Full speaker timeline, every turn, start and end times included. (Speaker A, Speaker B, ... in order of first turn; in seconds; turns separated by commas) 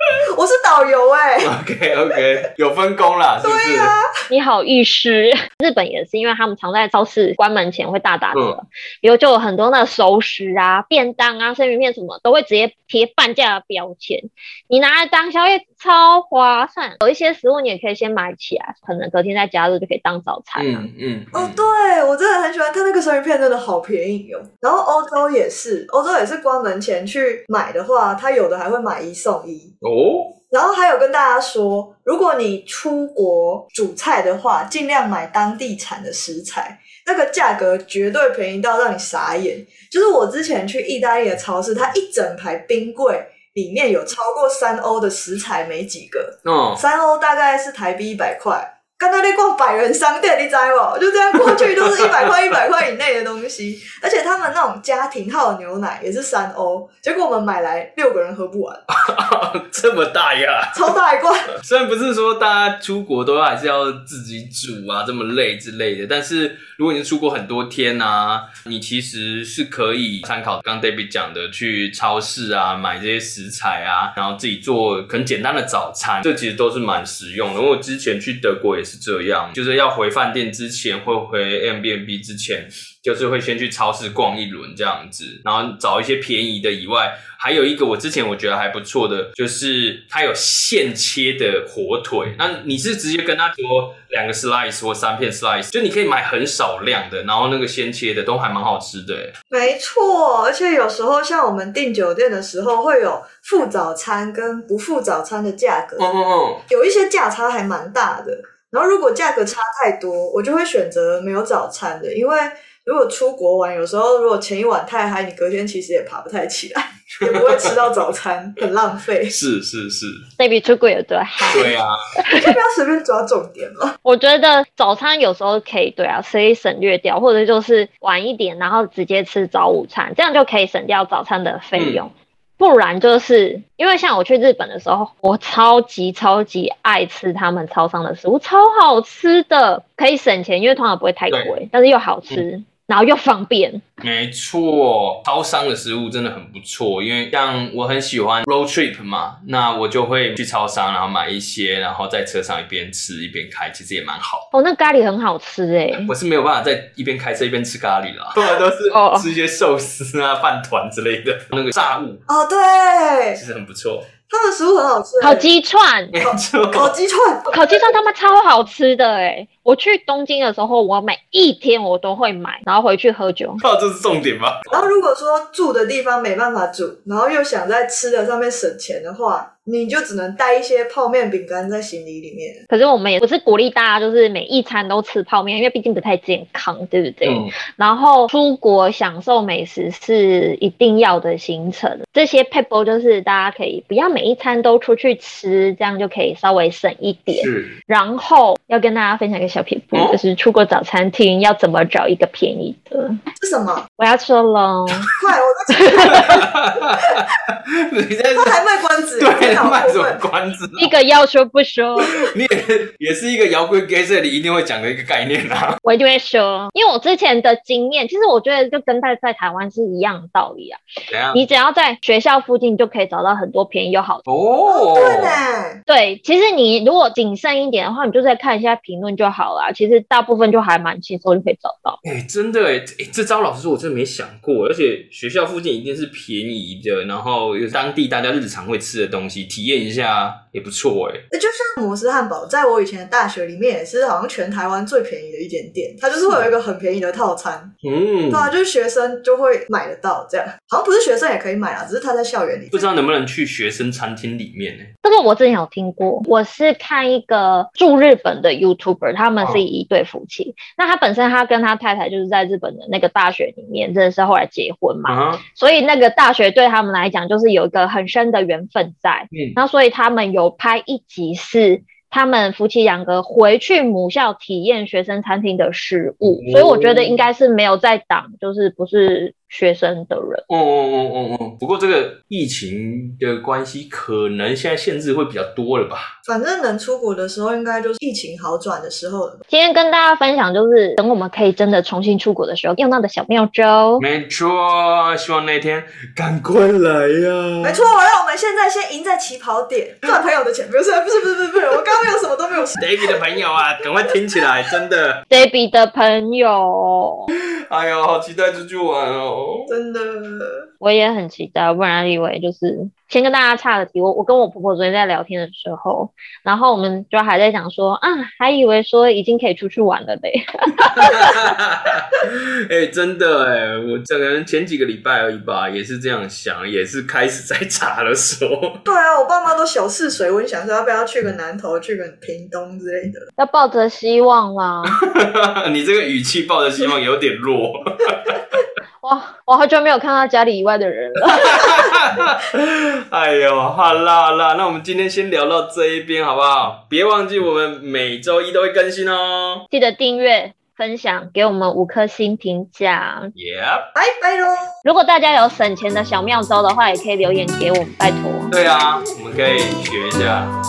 Speaker A: 0.3-1.5, Speaker B: 1.4-3.9, Speaker A: 3.4-4.1, Speaker C: 4.3-20.9, Speaker B: 20.6-21.6, Speaker A: 21.3-29.7, Speaker B: 29.8-30.3, Speaker A: 30.5-58.8, Speaker B: 46.5-46.8, Speaker B: 51.4-52.3, Speaker B: 58.9-60.8, Speaker A: 60.7-61.5, Speaker B: 61.6-99.3, Speaker A: 99.5-106.1, Speaker B: 106.0-106.6, Speaker A: 106.7-119.4, Speaker B: 117.2-117.7, Speaker B: 119.3-120.2, Speaker C: 120.4-121.7, Speaker B: 121.5-122.0, Speaker C: 122.2-122.6, Speaker A: 122.4-124.0, Speaker C: 124.0-143.8, Speaker B: 131.8-132.0, Speaker B: 144.0-154.5, Speaker C: 154.5-156.1, Speaker B: 156.1-162.2, Speaker C: 158.9-159.3, Speaker A: 162.3-163.4, Speaker B: 163.4-164.1, Speaker A: 164.3-165.5, Speaker C: 165.2-166.1, Speaker B: 166.1-166.9, Speaker A: 166.2-167.9, Speaker C: 167.5-173.6, Speaker B: 173.6-174.9, Speaker A: 174.7-182.6, Speaker C: 182.7-203.2, Speaker B: 187.2-187.5, Speaker B: 197.3-197.8, Speaker B: 199.9-200.2, Speaker A: 203.4-203.9, Speaker C: 204.0-205.1, Speaker A: 205.1-206.3, Speaker C: 205.7-206.4, Speaker B: 206.1-208.6, Speaker A: 208.4-210.2, Speaker B: 209.2-210.9, Speaker C: 210.8-212.2, Speaker B: 212.0-215.8, Speaker C: 215.8-220.8, Speaker B: 221.1-221.4, Speaker C: 221.3-224.2, Speaker B: 224.3-225.4, Speaker A: 224.7-225.8, Speaker C: 225.9-232.0, Speaker B: 232.0-241.2, Speaker A: 241.3-247.7, Speaker B: 247.8-248.5, Speaker A: 248.3-252.9, Speaker B: 252.7-254.9, Speaker C: 255.0-280.4, Speaker B: 265.1-265.4, Speaker B: 276.2-277.2, Speaker B: 280.5-286.1, Speaker A: 286.2-289.4, Speaker C: 289.5-294.0, Speaker B: 294.0-297.8, Speaker A: 297.6-303.2, Speaker B: 302.8-305.2, Speaker C: 305.3-307.3, Speaker B: 307.7-309.8, Speaker A: 309.7-310.7, Speaker C: 310.8-321.4, Speaker B: 320.8-328.8, Speaker A: 328.9-333.3, Speaker C: 333.4-335.0, Speaker B: 334.9-338.4, Speaker C: 339.0-341.9, Speaker B: 341.3-349.6, Speaker C: 349.7-353.3, Speaker B: 353.4-353.9, Speaker A: 353.9-354.7, Speaker C: 354.9-358.5, Speaker B: 358.5-360.5